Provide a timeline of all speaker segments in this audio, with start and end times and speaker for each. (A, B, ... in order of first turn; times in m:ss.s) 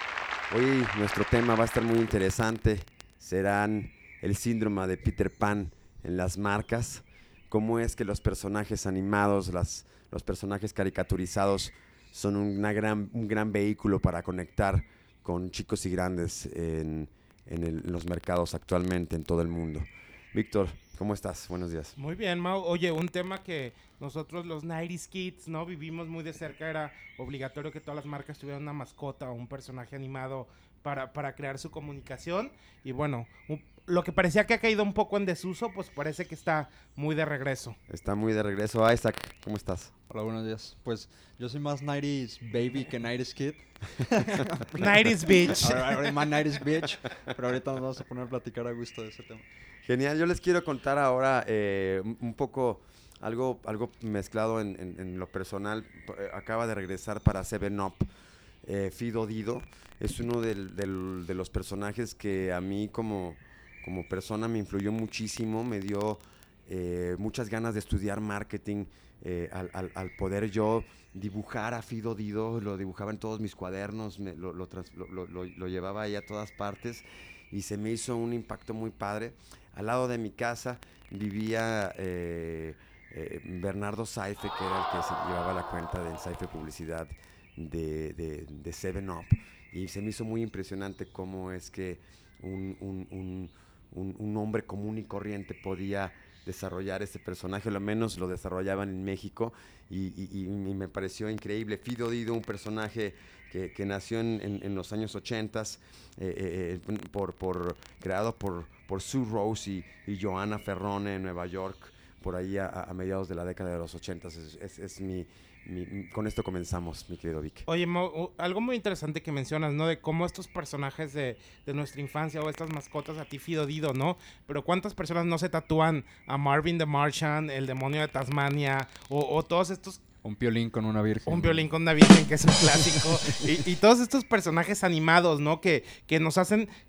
0:00.5-0:22.0 A
0:22.0-0:37.8 B
0:37.9-0:39.9 A
0:40.1-0:49.5 C
0:44.8-0:46.2 B
0:49.8-0:58.1 A
0:58.6-1:57.7 A
1:57.7-2:10.0 B
2:10.2-2:11.7 C
2:11.3-2:16.7 B
2:12.8-2:13.5 C